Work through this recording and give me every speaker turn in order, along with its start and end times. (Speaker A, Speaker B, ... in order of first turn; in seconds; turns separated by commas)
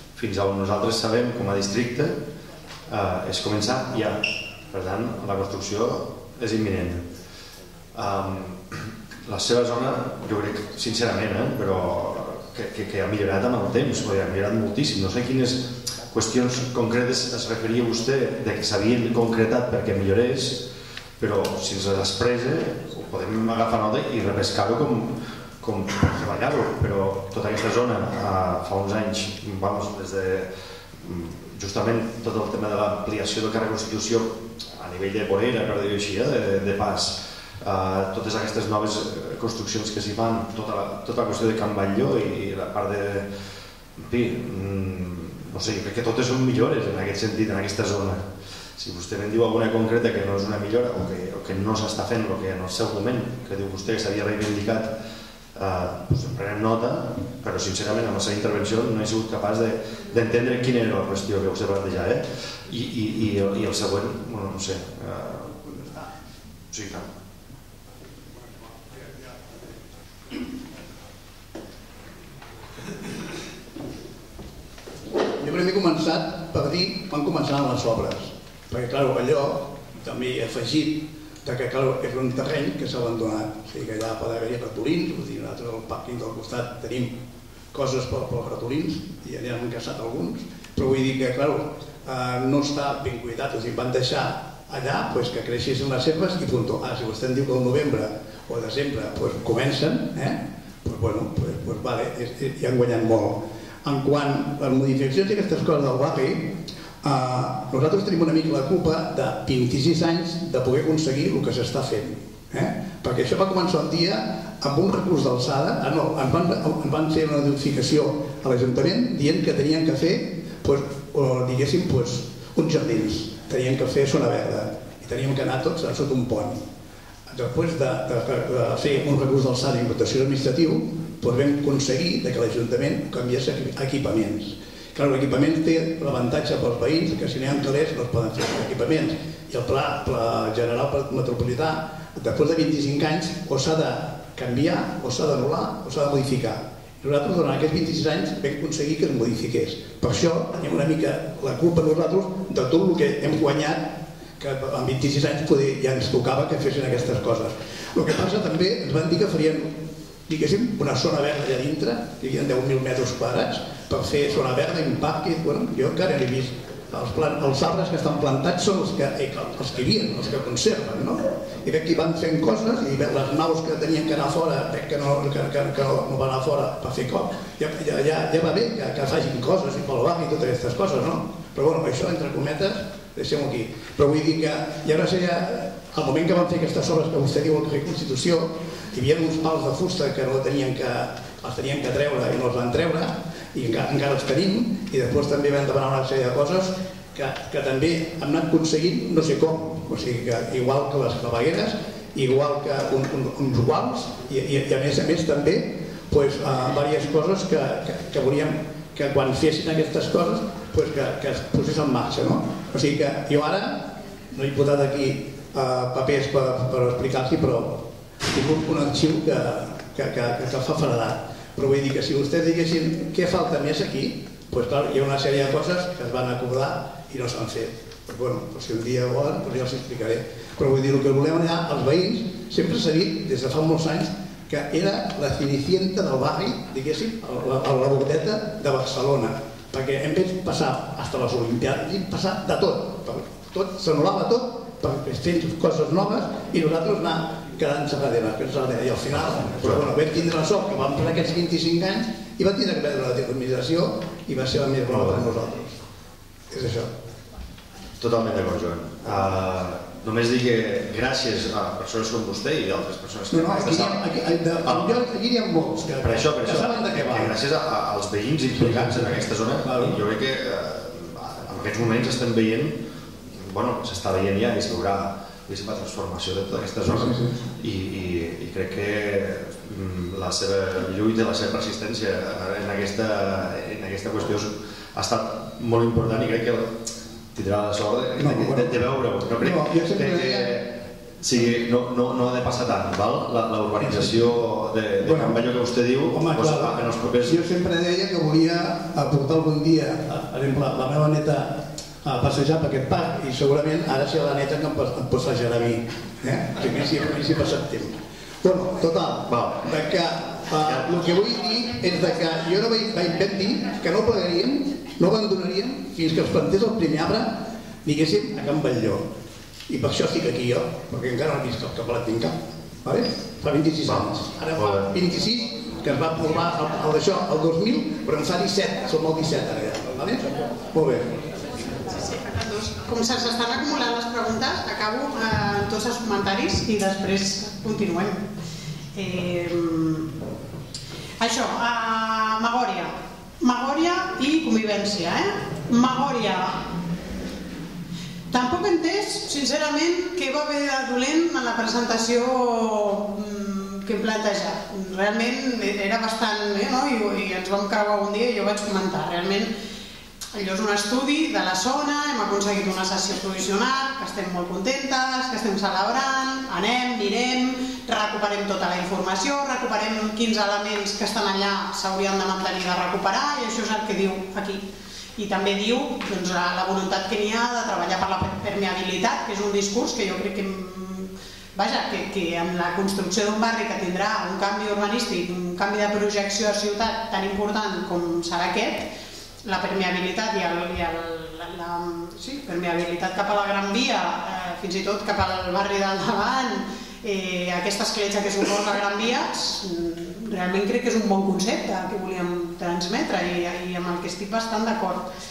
Speaker A: 0.2-2.2, Speaker A: 2.9-7.1, Speaker A: 7.9-20.7, Speaker A: 21.2-30.5, Speaker A: 31.0-43.3, Speaker A: 44.0-54.9, Speaker A: 55.5-66.1, Speaker A: 66.7-67.1, Speaker B: 75.4-87.2, Speaker B: 87.7-126.6, Speaker B: 127.3-159.8, Speaker B: 160.3-255.7, Speaker A: 249.5-249.9, Speaker A: 254.9-255.3, Speaker B: 256.5-256.9, Speaker A: 258.0-265.1, Speaker B: 263.3-267.4, Speaker A: 265.9-272.8, Speaker B: 268.5-270.0, Speaker A: 273.3-286.8, Speaker B: 276.8-277.3, Speaker A: 287.3-297.6, Speaker B: 288.2-290.5, Speaker B: 293.8-294.2, Speaker B: 295.0-295.5, Speaker B: 296.1-319.1, Speaker A: 309.3-309.6, Speaker A: 310.7-311.1, Speaker B: 319.7-331.1, Speaker A: 323.8-324.9, Speaker C: 331.9-338.3, Speaker C: 338.9-340.1, Speaker C: 341.2-346.7, Speaker C: 348.3-359.5, Speaker C: 360.3-374.7, Speaker C: 375.2-388.9, Speaker C: 389.4-405.1